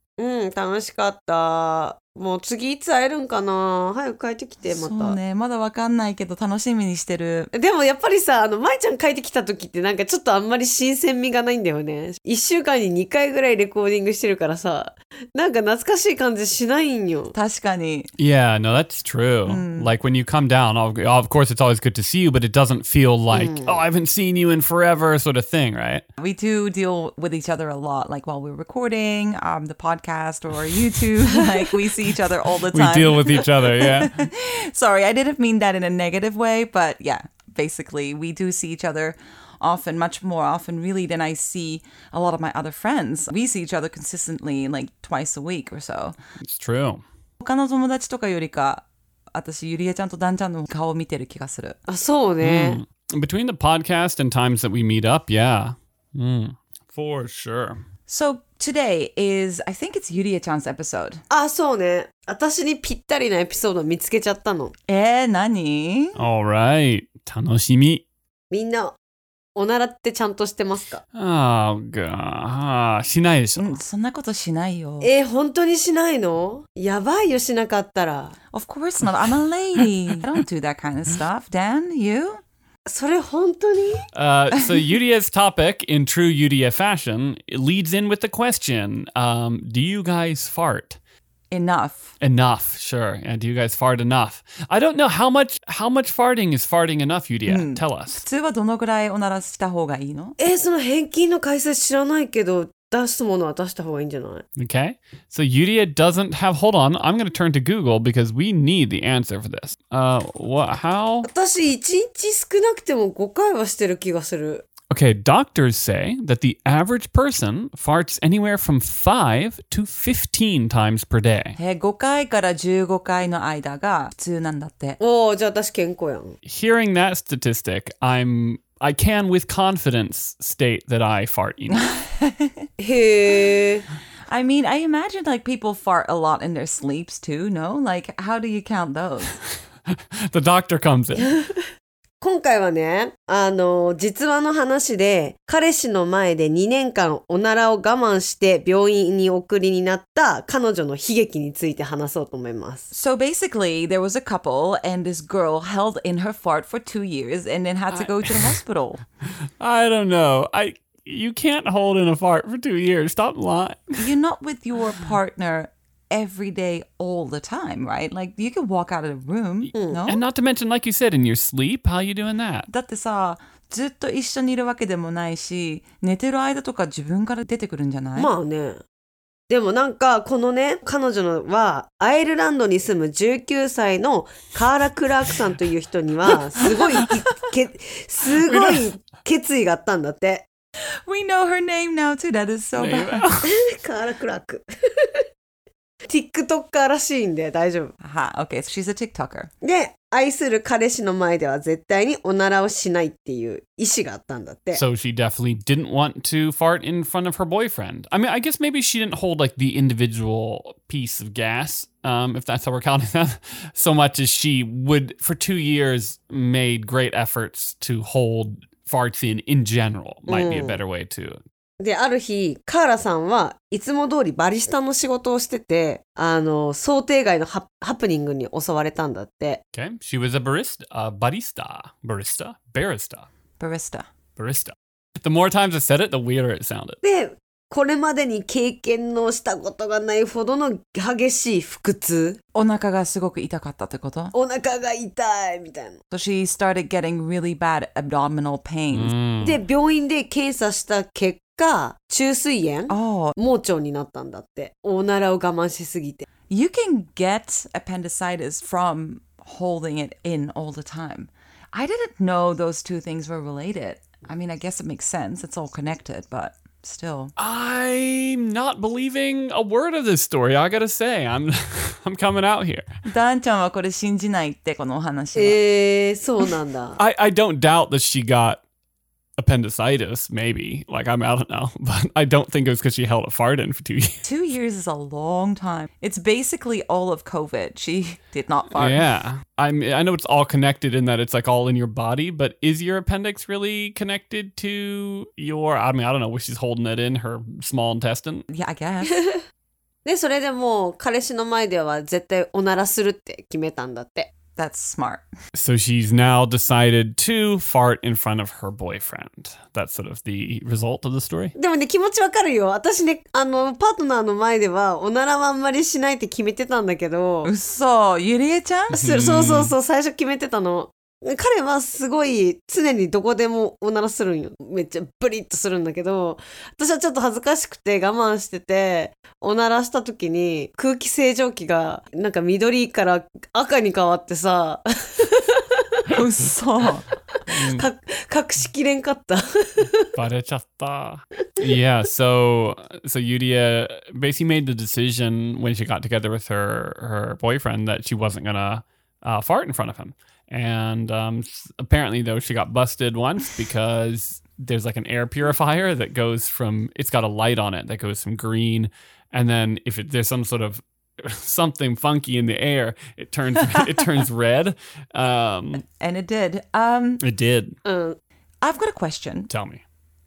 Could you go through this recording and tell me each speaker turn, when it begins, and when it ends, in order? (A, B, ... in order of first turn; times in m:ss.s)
0:00.2-0:05.2 A
0:04.6-0:07.5 B
0:07.5-0:17.3 A
0:17.3-0:18.1 B
0:18.2-0:26.0 C
0:19.4-0:19.9 B
0:23.3-0:23.8 A
0:26.2-0:46.2 B
0:32.7-0:34.1 C
0:46.4-0:47.0 C
0:47.4-0:51.8 B
0:51.9-0:52.8 A
0:52.4-0:57.8 C
0:58.1-1:01.2 B
1:01.3-1:04.7 A
1:04.9-1:06.2 B
1:06.2-1:08.0 C
1:08.5-1:09.0 A
1:09.5-1:11.0 A
1:11.1-1:13.8 C
1:13.6-1:15.1 B
1:15.0-1:18.3 A
1:18.5-1:22.4 B
1:22.8-1:24.0 A
1:24.1-1:31.0 C
1:31.5-1:32.1 B
1:32.2-1:38.2 C
1:37.4-1:40.4 B
1:40.4-1:44.4 A
1:44.6-1:51.3 C
1:51.2-1:54.6 A
1:54.9-2:01.6 C
2:01.6-2:05.0 B
2:05.0-2:06.4 A
2:06.4-2:11.9 C
2:11.9-2:12.5 B
2:12.8-2:13.8 A
2:14.3-2:19.3 B
2:20.3-2:21.3 C
2:22.2-2:32.9 A
2:32.9-2:39.0 B
2:37.9-2:38.6 C
2:39.6-2:44.1 C
2:44.0-2:50.2 B
2:49.7-2:50.0 A
2:50.1-2:52.7 C
2:52.7-2:58.3 B
2:58.2-2:58.8 A
2:59.5-3:10.4 A
3:08.5-3:08.8 C
3:11.0-3:13.3 B
3:12.8-3:13.5 C
3:13.4-3:15.2 A
3:16.0-3:17.9 A
3:18.0-3:19.5 B
3:19.6-3:24.8 A
3:24.7-3:41.4 C
3:40.3-3:40.8 A
3:41.8-3:49.6 A
3:49.7-3:53.3 C
3:53.6-3:54.1 B
3:54.4-3:57.0 C
3:57.0-4:02.4 A
4:02.5-4:04.3 B
4:04.3-4:06.0 A
4:06.1-4:09.1 B
4:08.9-4:09.6 C
4:09.4-4:16.2 A
4:12.9-4:13.4 B
4:16.5-4:27.3 B
4:27.4-4:32.9 C
4:33.0-4:35.6 B
4:35.3-4:37.0 A
4:37.0-4:38.6 C
4:39.4-4:44.2 C
4:44.2-4:49.1 B
4:48.7-4:58.4 C
4:58.5-4:59.2 B
4:59.1-4:59.4 A
5:00.0-5:04.3 A
5:04.6-5:05.3 B
5:05.5-5:11.5 C
5:11.6-5:17.5 A
5:17.4-5:19.0 B
5:18.9-5:19.7 C
5:18.9-5:35.7 A
5:36.1-5:37.0 B
5:37.5-5:37.8 C
5:37.7-5:40.0 A
5:40.1-6:05.8 C
6:05.8-6:07.2 B
6:07.2-6:07.7 C
6:07.8-6:08.2 A
6:08.6-6:09.5 B
6:09.5-6:09.8 C